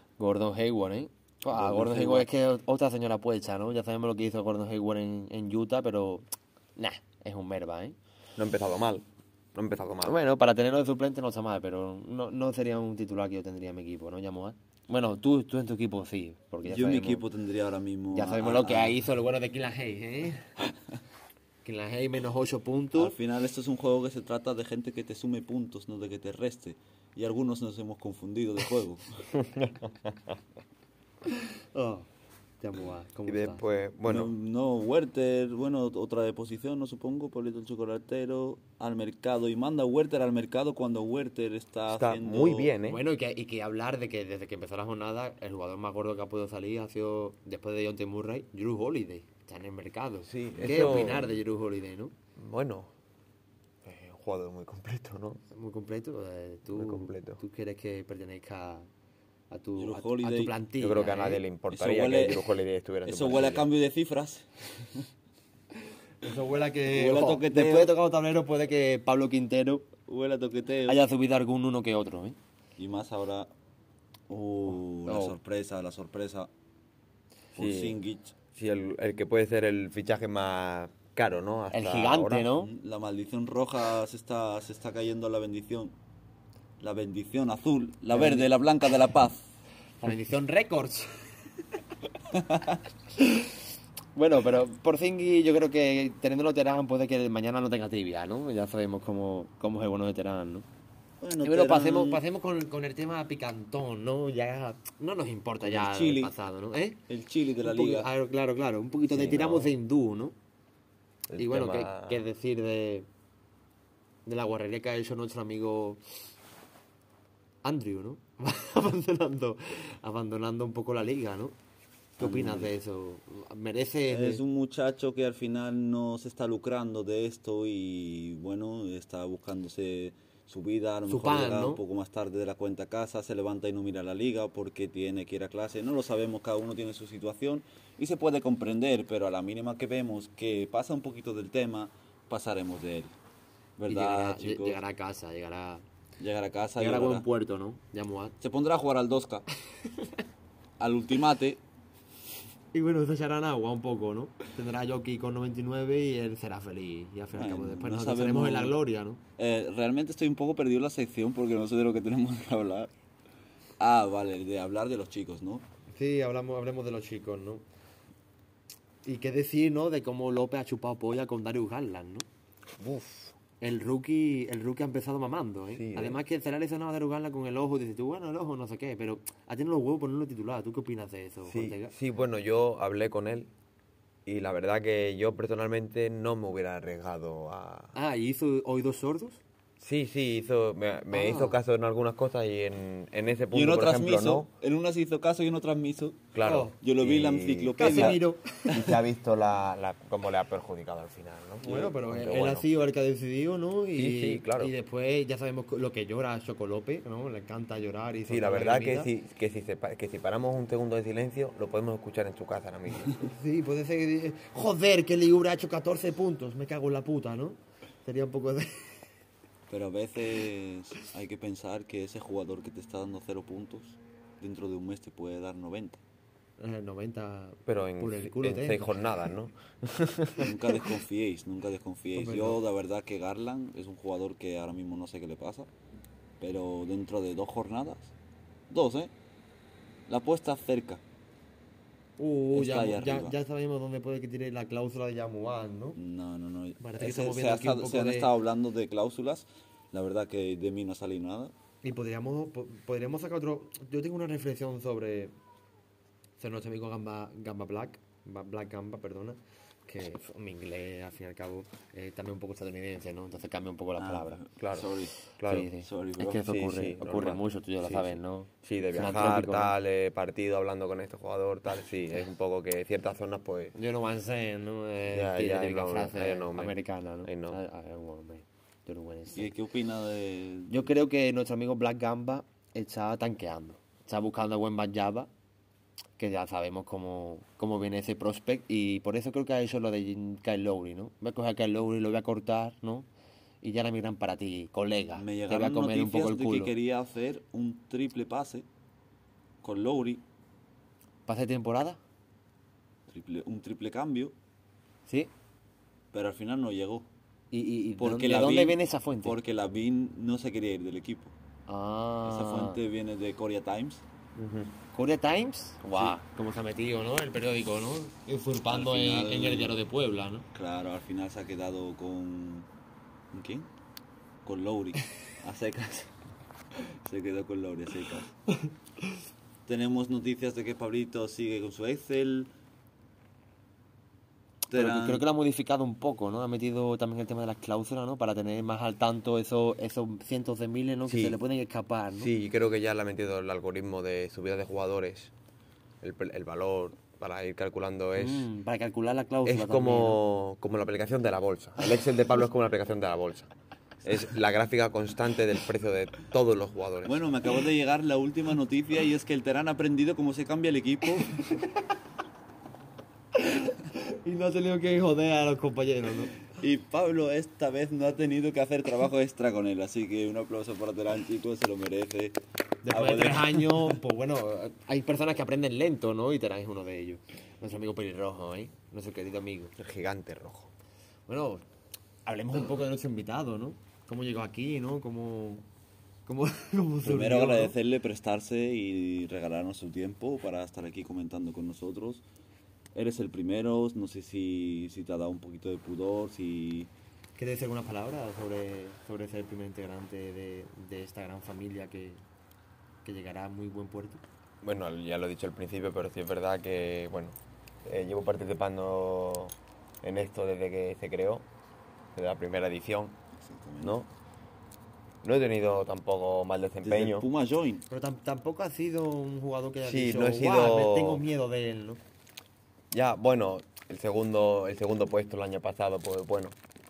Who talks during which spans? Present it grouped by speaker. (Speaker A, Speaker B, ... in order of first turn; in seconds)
Speaker A: 0.2-6.2, 6.8-8.0, 10.0-17.2, 18.1-20.6, 21.6-23.2, 31.4-32.1, 32.6-33.6, 42.9-52.1, 55.5-58.9, 59.5-61.4, 66.2-69.9, 70.8-72.4, 75.0-75.4, 81.7-82.7, 88.1-88.5, 90.0-91.2, 93.2-93.5, 94.1-100.7, 101.4-107.0, 107.6-110.3, 111.4-113.1, 114.2-116.0, 117.6-121.5, 122.2-124.4, 131.1-131.8, 143.9-145.8, 146.8-148.4, 152.7-159.2, 165.9-167.6, 169.0-172.3, 173.6-181.9, 187.9-189.4, 191.1-191.6, 196.4-196.7, 197.8-198.9, 201.6-209.1, 213.2-219.0, 226.6-228.9, 232.1-232.6, 242.2-246.0, 246.8-248.3, 251.8-255.3, 256.4-264.4, 265.4-269.7, 273.7-279.5, 280.7-285.3, 286.2-293.1, 293.6-296.7, 301.3-302.0, 307.5-309.4, 311.7-312.8, 314.9-320.4, 334.7-342.3, 348.1-350.2, 363.3-366.4, 372.8-379.8, 381.3-381.6, 382.2-385.6, 386.2-387.7, 397.4-402.2, 403.0-404.2, 417.9-422.0
Speaker B: 1.5-2.3, 16.6-19.0, 22.9-29.2, 34.0-42.7, 50.8-51.0, 59.8-60.5, 61.7-62.5, 63.0-65.1, 66.9-67.9, 70.1-71.0, 72.8-73.5, 74.3-76.5, 77.5-78.3, 82.6-85.9, 86.8-89.4, 92.3-92.8, 101.2-102.2, 105.6-106.3, 107.1-108.1, 122.2-122.7, 124.1-143.1, 143.8-144.8, 146.2-147.2, 148.4-149.4, 150.8-151.6, 157.3-158.8, 159.4-162.9, 163.8-165.7, 193.5-198.2, 219.7-226.0, 230.4-235.7, 236.4-238.1, 238.7-239.1, 240.1-241.0, 242.5-243.3, 246.0-251.5, 264.0-265.1, 265.8-266.4, 279.3-280.9, 295.1-298.6, 299.6-300.2, 303.1-304.3, 306.1-307.1, 308.0-311.3, 312.2-314.0, 318.7-319.8, 320.5-322.7, 323.3-323.7, 324.4-326.1, 326.7-328.3, 329.6-332.5, 334.7-335.2, 357.0-361.6, 366.5-374.0, 387.0-392.2, 392.9-396.9, 413.4-414.0, 416.8-417.8
Speaker C: 8.4-10.2, 29.4-30.1, 33.3-34.3, 41.9-43.0, 50.2-51.4, 52.4-52.9, 53.8-55.4, 56.7-57.4, 60.8-63.7, 77.5-78.0, 78.5-82.5, 109.1-109.7, 111.3-112.2, 172.8-173.3, 175.7-176.2, 181.5-183.5, 184.2-187.9, 189.8-194.5, 196.3-202.7, 203.9-204.7, 208.3-213.3, 227.7-230.5, 264.6-265.7, 266.4-273.7, 275.1-277.6, 314.4-314.7, 341.1-341.4, 342.2-345.3, 346.0-348.5, 349.4-353.5, 354.0-357.2, 379.8-380.7, 404.6-411.5, 412.1-413.2, 413.8-414.1, 415.2-417.3, 419.8-421.2, 422.9-426.6